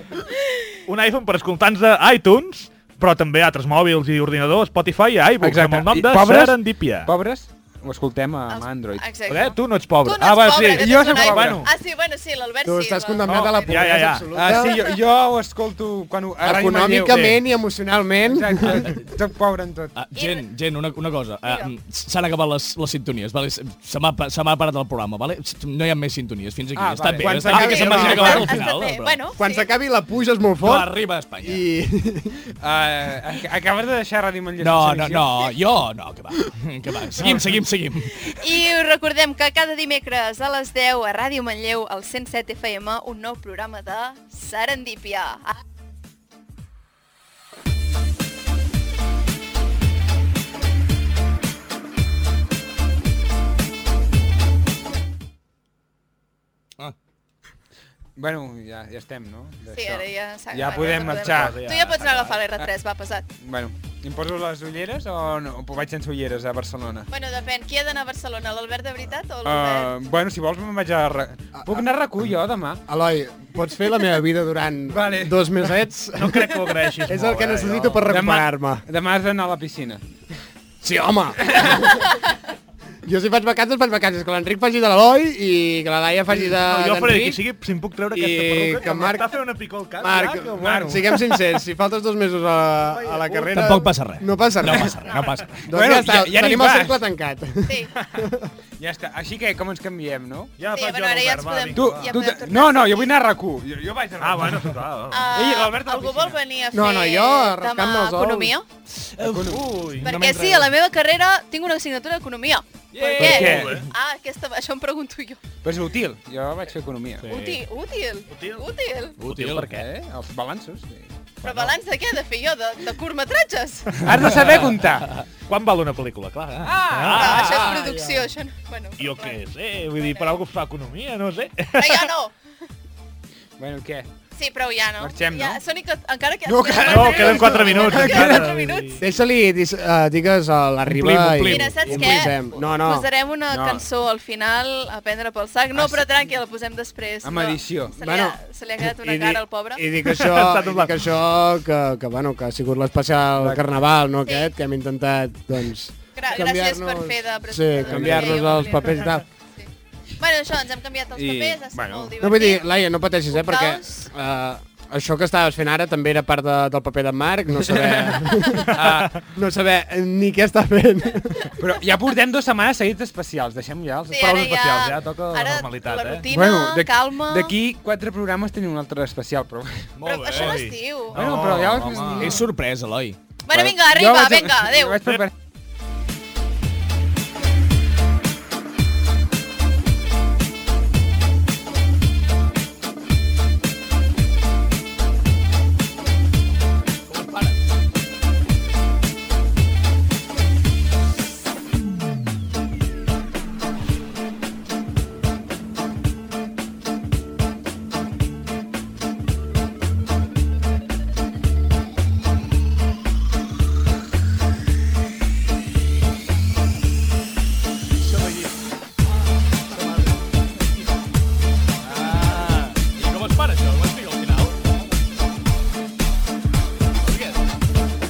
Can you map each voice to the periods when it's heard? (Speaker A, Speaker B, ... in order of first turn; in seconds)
Speaker A: 0.3-0.6, 8.5-13.8, 14.5-14.9, 20.1-20.4, 21.4-21.7, 27.6-29.7, 38.4-45.6, 59.7-63.3, 67.1-69.9, 95.0-95.3, 100.7-103.1, 105.1-108.7, 110.0-115.4, 117.3-119.2, 121.4-124.0, 127.1-129.4, 129.9-130.4, 131.7-132.3, 134.4-139.0, 141.4-149.8, 154.2-154.6, 156.2-159.1, 160.2-164.1, 174.1-177.5, 180.0-181.2, 183.4-185.0
Speaker B: 0.9-7.1, 9.3-11.7, 13.3-14.5, 60.7-62.4, 76.1-78.1, 86.4-91.0, 92.9-93.5, 100.6-102.2, 104.2-105.3, 109.5-110.1, 113.2-113.9, 118.3-118.6, 119.2-119.8, 121.4-121.7, 125.5-127.8, 129.0-132.1, 136.8-138.9, 150.1-151.0, 174.1-176.3, 180.0-182.4
Speaker C: 5.4-9.1, 10.2-11.7, 14.3-17.4, 18.3-19.9, 26.7-28.6, 32.6-35.3, 58.2-61.6, 63.4-67.1, 69.5-72.8, 74.9-75.5, 78.1-80.0, 81.5-81.8, 90.6-91.4, 95.7-97.0, 98.8-100.5, 101.7-104.7, 105.3-106.4, 109.2-110.6, 113.2-113.8, 115.6-117.3, 119.7-121.3, 124.0-125.1, 126.6-127.8, 133.6-134.1, 135.0-135.6, 136.4-138.6, 143.5-143.8, 147.2-147.9, 157.9-158.4, 161.2-162.1, 167.7-169.1, 171.6-174.7, 176.3-179.9, 181.1-182.4, 183.5-185.3
Speaker D: 12.6-14.8, 16.4-18.9, 27.4-28.4, 29.4-30.9, 31.4-32.4, 71.5-71.9, 72.9-78.8, 80.8-82.1, 83.0-87.4, 88.1-89.3, 90.0-95.0, 95.7-98.5, 106.7-108.5, 139.0-143.1, 148.0-159.2, 162.2-171.5
Speaker E: 19.9-29.2, 30.6-31.6, 34.6-38.3, 93.3-95.6, 109.2-110.1, 112.9-113.7, 117.2-117.6, 119.2-119.8, 140.9-142.1, 180.3-180.6, 181.2-183.2, 197.1-197.6, 218.0-218.6, 219.4-220.9, 221.8-224.8, 227.0-227.4